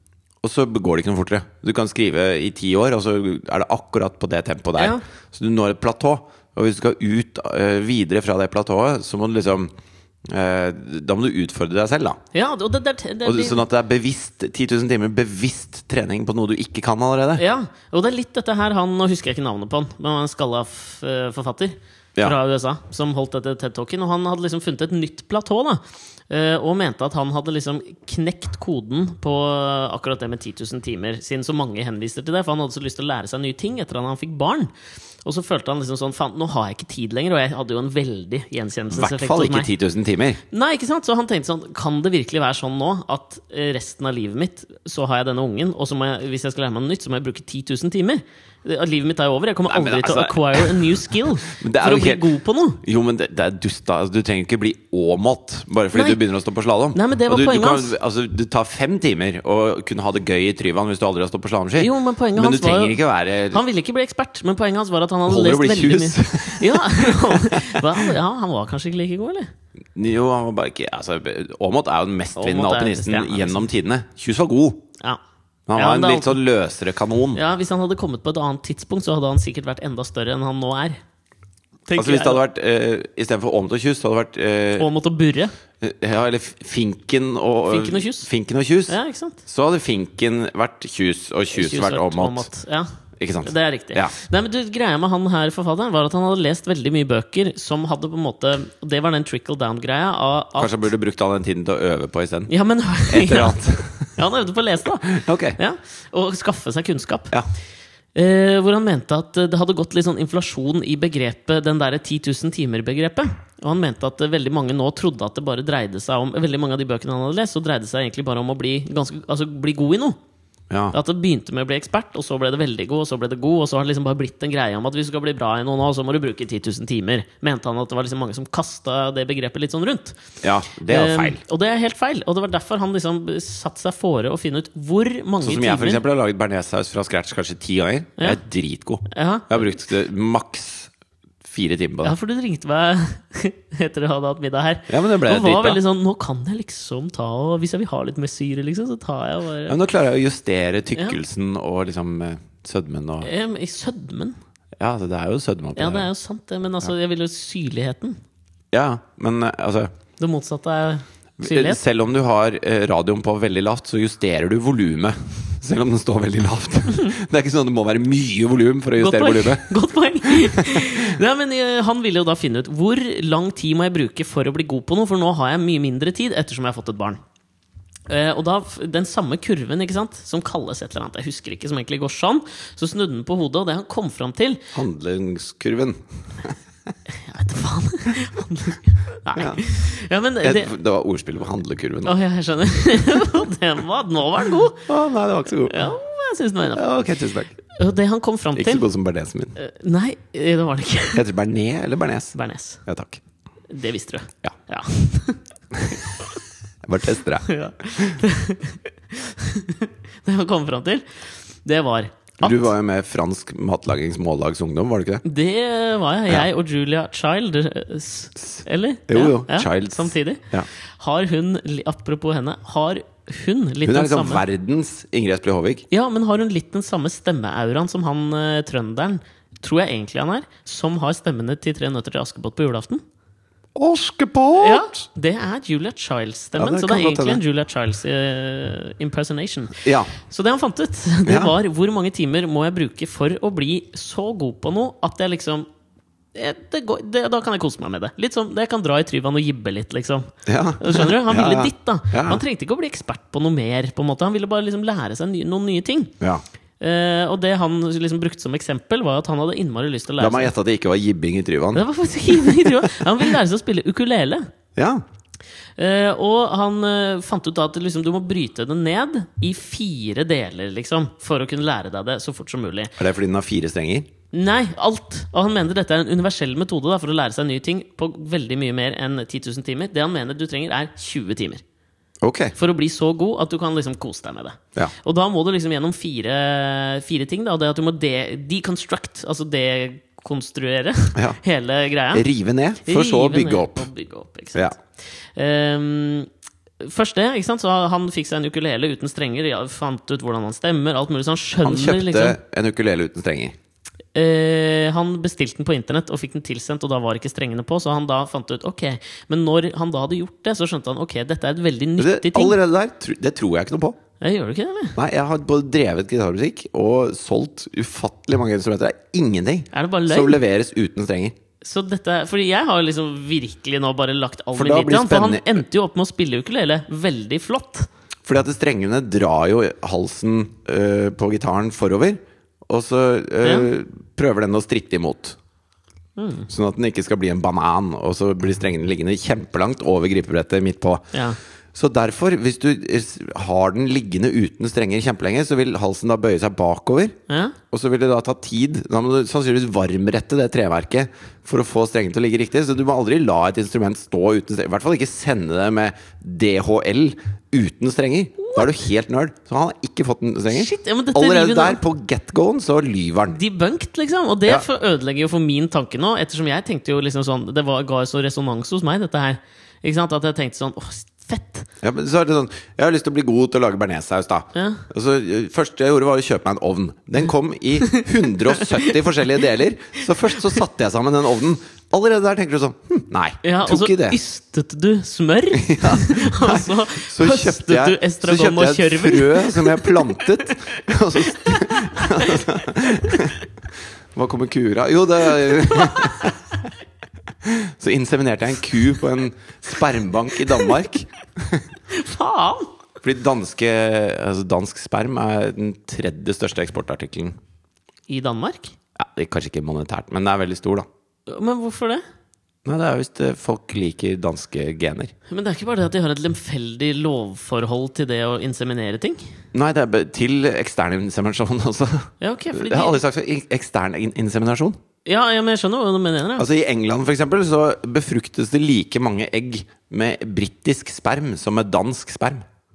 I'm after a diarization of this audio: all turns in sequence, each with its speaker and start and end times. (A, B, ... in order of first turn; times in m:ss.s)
0:00.4-0:09.7 A
0:04.8-0:05.0 B
0:10.2-0:12.2 A
0:12.3-0:13.6 B
0:13.2-0:17.4 A
0:17.4-0:34.7 B
0:35.2-0:39.7 B
0:38.9-0:40.4 A
0:40.5-0:52.8 B
0:49.7-0:52.2 A
0:52.8-1:03.6 A
0:55.9-0:56.2 B
0:56.9-0:58.0 B
1:01.8-1:09.5 B
1:05.3-1:07.8 A
1:10.0-1:14.8 A
1:12.4-1:13.7 B
1:15.7-1:17.4 A
1:15.8-1:16.4 B
1:17.3-1:21.0 B
1:21.9-1:22.4 B
1:22.0-1:24.9 A
1:24.8-1:25.5 B
1:25.8-1:32.5 A
1:27.7-1:28.3 B
1:28.9-1:29.4 B
1:31.5-1:32.9 B
1:33.2-1:34.2 A
1:33.4-1:40.9 B
1:40.6-1:42.5 A
1:42.5-1:43.6 B
1:43.1-1:44.2 A
1:44.2-1:47.3 B
1:45.1-1:45.6 A
1:48.2-2:00.2 B
2:00.7-2:01.0 A
2:00.9-2:10.2 B
2:10.4-2:11.4 A
2:10.9-2:16.0 B
2:15.4-2:20.9 A
2:19.1-2:19.7 B
2:21.4-2:22.2 A
2:22.0-2:29.8 B
2:24.9-2:25.8 A
2:29.7-2:33.3 A
2:33.2-2:34.4 B
2:34.8-2:36.1 A
2:35.8-2:38.2 B
2:38.7-2:39.9 A
2:40.2-2:41.8 B
2:41.4-2:49.7 A
2:49.0-2:57.2 B
2:50.2-2:51.1 A
2:58.1-3:04.7 B
3:04.7-3:06.6 A
3:07.2-3:10.7 B
3:09.4-3:09.7 A
3:10.4-3:12.2 A
3:12.0-3:14.9 B
3:14.9-3:15.8 A
3:15.7-3:16.8 B
3:16.8-3:17.5 A
3:17.7-3:18.9 B
3:18.6-3:19.6 A
3:19.6-3:21.2 B
3:21.1-3:23.2 A
3:22.4-3:22.8 B
3:23.7-3:26.0 B
3:26.8-3:28.2 A
3:27.5-3:31.0 B
3:31.6-3:32.7 B
3:32.4-3:35.2 A
3:35.2-3:40.4 B
3:38.5-3:40.7 A
3:41.0-3:44.4 B
3:43.9-3:45.8 A
3:45.9-3:53.0 B
3:53.8-3:55.0 A
3:54.5-4:05.7 B
3:56.6-3:57.4 A
3:59.8-4:00.1 A
4:01.3-4:01.5 A
4:06.3-4:16.1 B
4:10.5-4:12.4 A
4:16.8-4:20.5 B
4:20.2-4:23.2 A
4:21.7-4:24.5 B
4:24.8-4:25.0 A
4:25.8-4:32.9 B
4:33.0-4:34.1 A
4:34.3-4:41.6 B
4:42.2-4:42.6 A
4:42.6-4:52.3 B
4:52.1-4:53.9 A
4:52.8-4:54.7 B
4:55.4-4:56.3 B
4:56.8-5:02.4 B
5:01.6-5:03.6 A
5:04.2-5:12.6 B
5:12.0-5:14.0 A
5:14.2-5:15.0 B
5:15.0-5:21.4 A
5:19.7-5:20.4 B
5:21.6-5:27.9 B
5:24.6-5:25.6 A
5:28.2-5:35.4 A
5:33.4-5:33.7 B
5:36.2-5:36.5 B
5:36.5-5:41.1 A
5:41.7-5:47.2 A
5:47.3-5:47.6 B
5:47.7-6:03.4 A
5:58.4-5:58.7 B
6:00.5-6:01.8 B
6:03.4-6:11.7 B
6:11.8-6:24.2 A
6:14.6-6:14.8 B
6:18.6-6:18.9 B
6:23.4-6:33.4 B
6:25.6-6:33.4 A
6:34.1-6:36.4 A
6:35.7-6:36.3 B
6:37.4-6:41.7 A
6:41.9-6:42.7 B
6:43.0-6:47.4 A
6:48.1-6:48.7 B
6:49.0-6:50.9 A
6:51.3-6:52.0 B
6:52.6-6:55.1 A
6:55.3-6:59.2 B
6:59.5-7:04.8 A
7:02.2-7:03.0 B
7:05.0-7:06.5 B
7:06.4-7:12.5 A